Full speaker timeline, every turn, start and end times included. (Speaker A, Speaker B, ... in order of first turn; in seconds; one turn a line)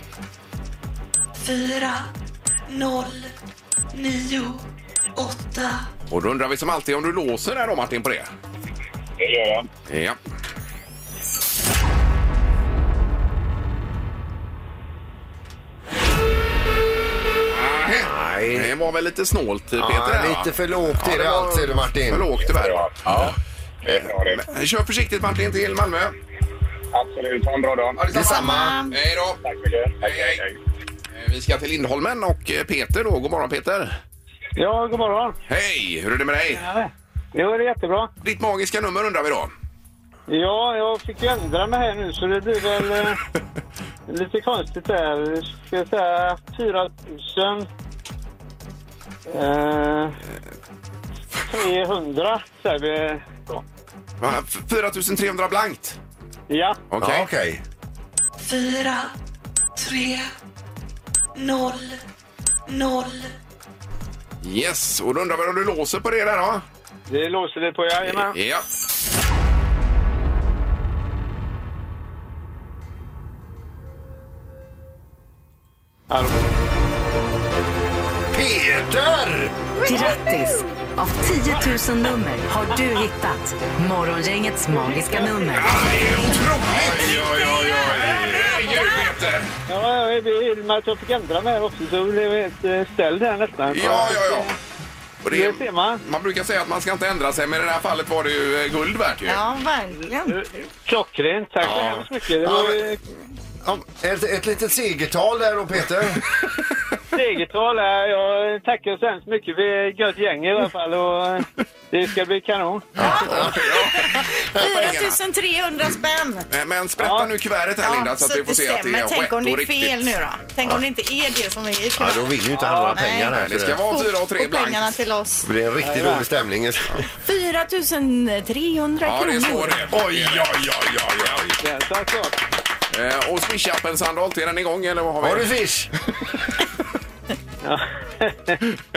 Speaker A: 1.4-2.1
Speaker A: 2.7-3.3
Speaker A: 3.9-4.6
Speaker A: 5.2-5.9
Speaker B: 6.1-8.3
Speaker C: 9.2-9.7
Speaker B: 9.9-10.2
Speaker B: 17.5-26.1
Speaker D: 18.0-18.7
Speaker D: 19.8-22.3
Speaker C: 22.5-22.9
Speaker D: 23.1-23.3
Speaker C: 23.8-24.4
Speaker C: 26.9-28.0
Speaker B: 28.0-29.4
Speaker D: 28.1-28.8
Speaker E: 28.1-28.9
Speaker C: 29.4-30.5
Speaker B: 30.0-30.4
Speaker B: 31.1-34.0
Speaker F: 34.6-35.4
Speaker B: 35.5-36.6
Speaker F: 36.5-38.1
Speaker B: 38.2-39.5
Speaker F: 40.3-43.2
Speaker F: 44.1-47.7
Speaker F: 49.3-50.1
Speaker F: 51.5-53.6
Speaker B: 54.2-56.0
Speaker F: 56.5-56.8
Speaker B: 56.9-57.3
Speaker D: 57.0-57.6
Speaker A: 58.4-59.1
Speaker A: 59.8-60.3
Speaker A: 61.3-62.0
Speaker A: 62.7-63.3
Speaker B: 64.4-66.6
Speaker F: 67.1-68.3
Speaker B: 68.0-68.6
Speaker D: 78.3-79.5
Speaker G: 79.8-85.8
Speaker F: 84.9-85.3
Speaker B: 85.5-89.5
Speaker D: 86.7-88.4
Speaker E: 88.1-89.0
Speaker F: 89.7-94.5
Speaker B: 93.7-94.5
Speaker B: 95.2-99.4
Speaker F: 95.3-96.0
Speaker E: 99.2-100.3
Speaker F: 100.3-103.0
Speaker D: 101.6-102.8
Speaker D: 103.6-106.2
Speaker F: 107.1-112.9
Speaker D: 113.0-113.5
Speaker E: 113.0-116.5
Speaker B: 113.0-115.2
Speaker B: 116.5-120.1
Speaker F: 117.0-117.3
Speaker E: 117.8-125.5
Speaker D: 122.0-123.8
Speaker F: 122.5-122.9
Speaker B: 123.3-125.0
Speaker D: 125.4-127.0
Speaker F: 125.8-126.3
Speaker E: 127.2-129.8
Speaker B: 129.0-131.6
Speaker D: 129.9-131.4
Speaker F: 131.6-132.4
Speaker B: 132.9-135.5
Speaker D: 135.2-135.9
Speaker F: 137.6-138.6